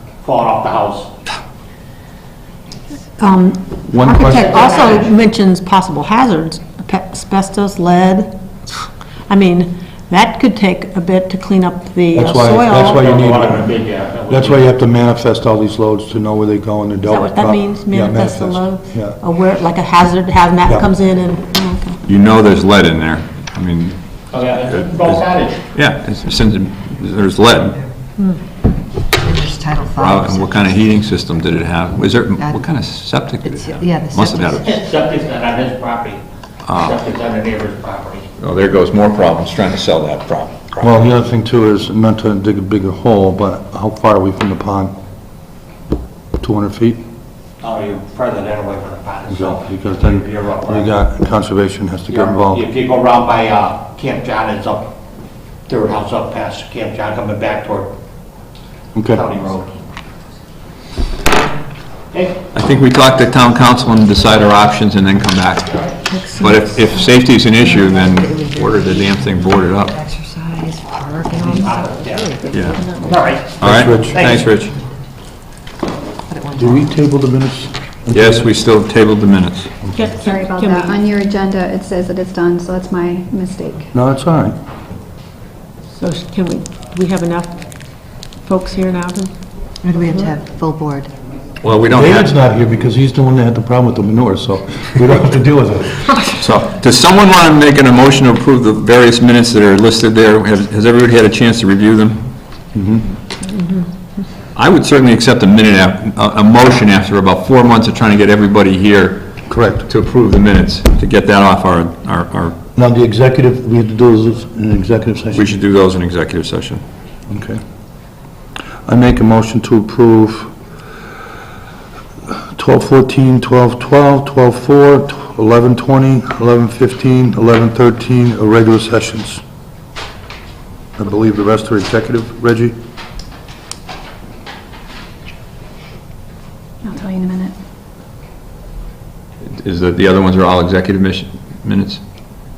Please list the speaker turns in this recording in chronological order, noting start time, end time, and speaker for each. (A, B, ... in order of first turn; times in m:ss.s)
0:00.2-0:01.2 A
0:03.2-0:08.4 B
0:03.9-0:04.5 C
0:04.2-0:05.1 A
0:09.3-0:12.9 B
0:12.1-0:13.7 C
0:12.7-0:14.8 A
0:14.3-0:19.2 C
0:17.0-0:22.0 B
0:22.0-0:27.8 D
0:24.3-0:25.7 A
0:29.1-0:30.9 E
0:29.9-0:34.8 D
0:32.4-0:32.7 E
0:33.4-0:34.7 E
0:34.6-0:38.3 A
0:36.7-0:37.0 D
0:38.4-0:40.9 D
0:40.8-0:44.9 C
0:46.4-0:47.0 C
0:47.6-0:50.9 A
0:49.3-0:52.6 C
0:52.1-0:54.9 A
0:55.7-0:57.9 A
0:58.9-0:59.2 C
0:59.1-0:59.7 A
1:02.1-1:02.4 A
1:02.5-1:10.0 D
1:06.1-1:07.0 B
1:07.6-1:13.2 E
1:11.4-1:14.4 A
1:12.5-1:12.8 D
1:13.5-1:14.8 D
1:13.6-1:14.2 C
1:14.0-1:14.9 E
1:16.3-1:16.9 E
1:16.6-1:18.5 C
1:18.1-1:19.8 D
1:19.9-1:21.0 B
1:20.1-1:23.9 F
1:23.9-1:24.6 C
1:26.0-1:27.6 B
1:28.2-1:29.3 B
1:29.8-1:31.1 E
1:31.6-1:32.3 D
1:31.9-1:36.3 C
1:36.4-1:42.3 D
1:42.7-1:43.1 C
1:44.5-1:52.6 D
1:49.5-1:49.9 C
1:52.8-1:55.5 C
1:55.3-1:56.8 D
1:57.3-1:57.6 C
1:58.8-2:00.5 C
2:02.3-2:09.4 C
2:11.0-2:12.7 C
2:16.8-2:17.5 F
2:19.4-2:22.0 D